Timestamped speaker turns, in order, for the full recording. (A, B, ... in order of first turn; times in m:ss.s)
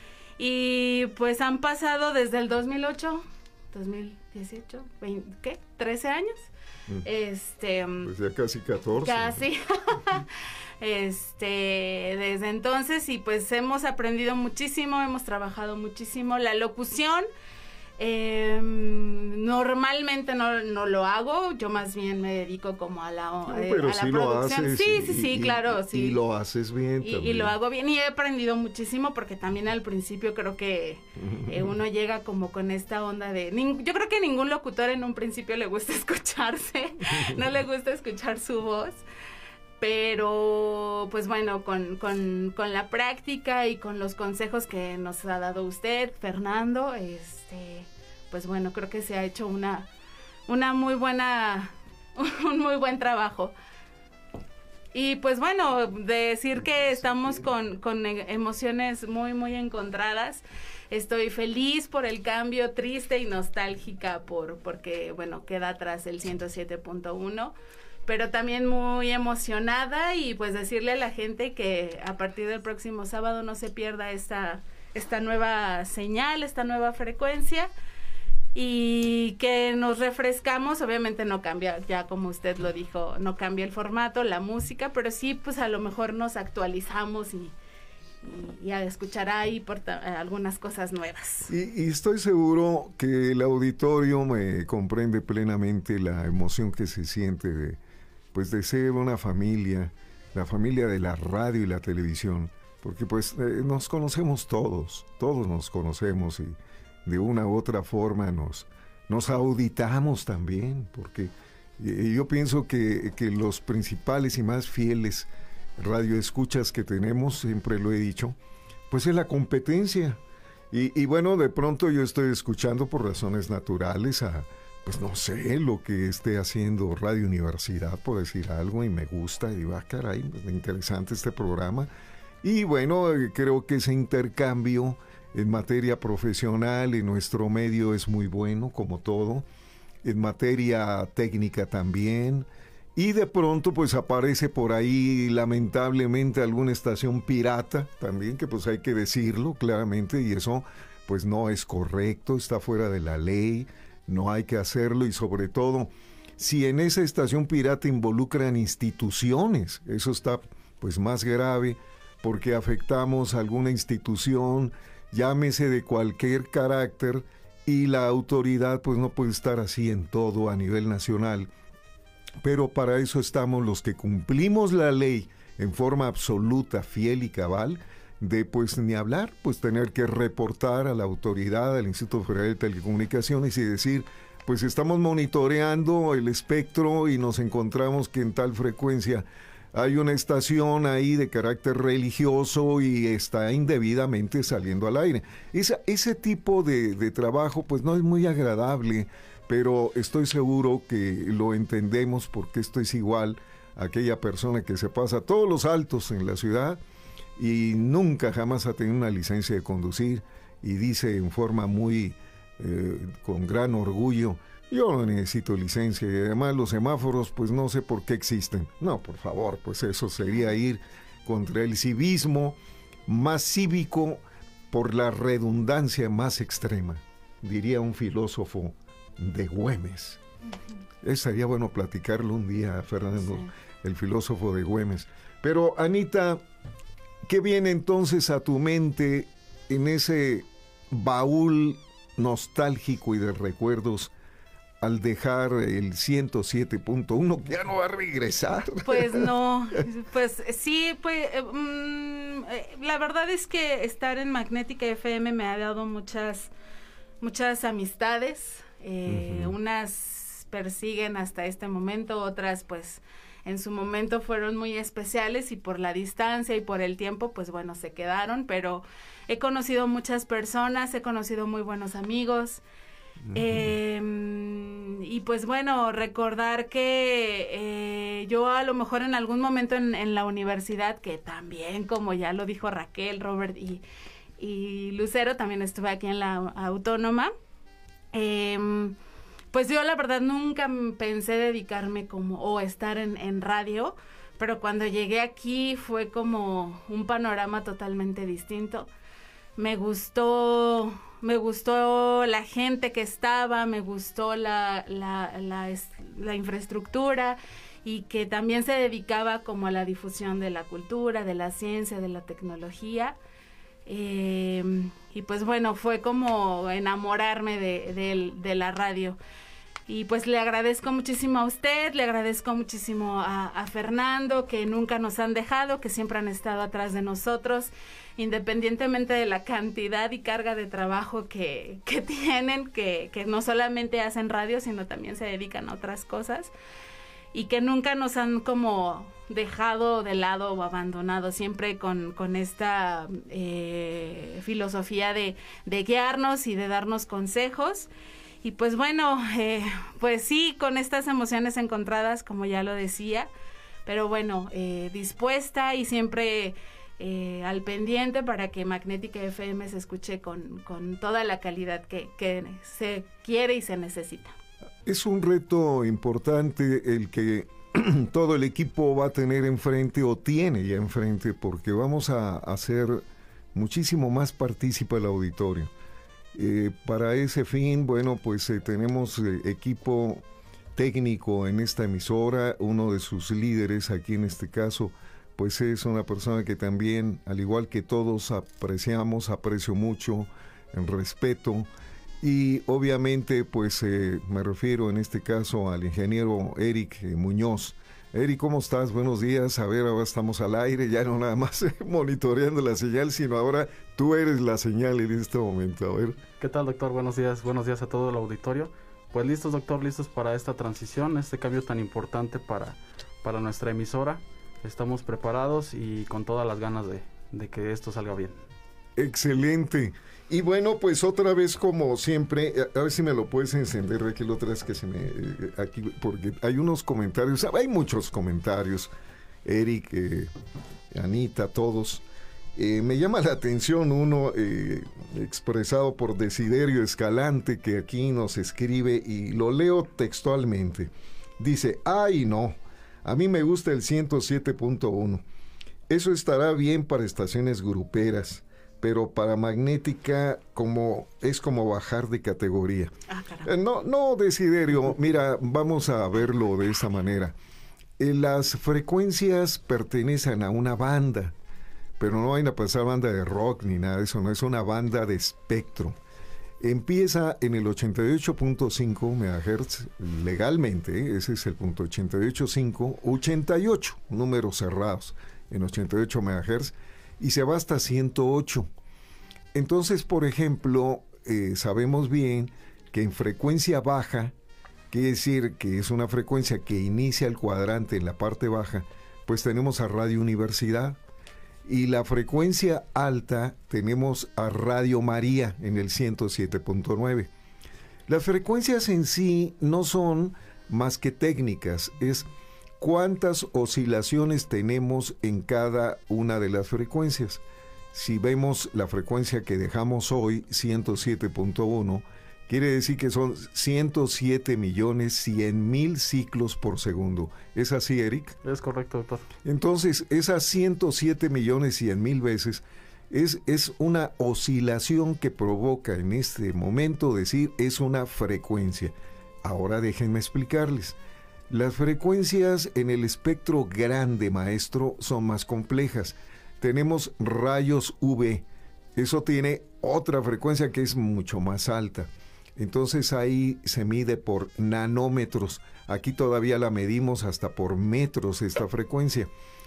0:00.4-0:06.5 A
0:07.0-0:08.1 A
0:08.0-0:09.4 B
0:09.0-0:10.2 A
0:10.8-0:17.2 A
0:18.0-0:26.2 A
0:23.4-0:27.5 B
0:27.0-0:39.0 A
0:31.2-0:31.8 B
0:37.1-0:37.5 B
0:39.8-0:49.9 A
0:50.5-0:53.5 A
0:54.9-1:07.5 A
0:56.9-0:57.4 B
1:08.0-1:17.7 A
1:18.5-1:27.5 A
1:28.2-1:31.5 A
1:31.5-1:37.8 B
1:38.3-1:58.4 B
1:58.9-2:00.2 B
2:00.7-2:11.9 B
2:12.4-2:19.4 B
2:20.0-2:51.5 B
2:52.4-3:26.8 B
3:27.4-3:50.2 B
3:51.0-3:56.4 B
3:57.2-4:04.1 B
4:04.8-4:09.3 B
4:08.8-4:16.5 A
4:17.2-4:32.6 A
4:19.0-4:19.5 B
4:33.3-4:43.8 A
4:33.3-4:33.7 B
4:44.4-4:47.3 A
4:48.1-4:48.9 A
4:49.5-4:58.9 A
4:59.6-5:13.2 A
5:13.8-5:19.2 A
5:19.9-5:36.5 A
5:37.3-5:47.9 A
5:48.4-5:53.3 A
5:53.8-6:04.3 A
6:04.8-6:15.7 B
6:16.3-6:20.2 B
6:20.7-6:31.7 B
6:32.2-6:46.2 B
6:46.4-6:58.4 C
6:59.0-7:08.9 B
7:09.4-7:10.3 B
7:10.9-7:12.0 B
7:12.5-7:25.2 B
7:25.9-7:37.3 B
7:33.1-7:33.5 A
7:38.0-7:41.3 B
7:42.0-7:46.0 B
7:46.6-7:58.7 B
7:59.5-8:04.3 B
8:04.9-8:11.0 B
8:11.6-8:17.3 B
8:18.1-8:22.3 B
8:22.8-8:27.4 B
8:27.9-8:38.4 B
8:38.4-8:39.2 C
8:39.4-8:51.0 B
8:51.5-9:09.3 B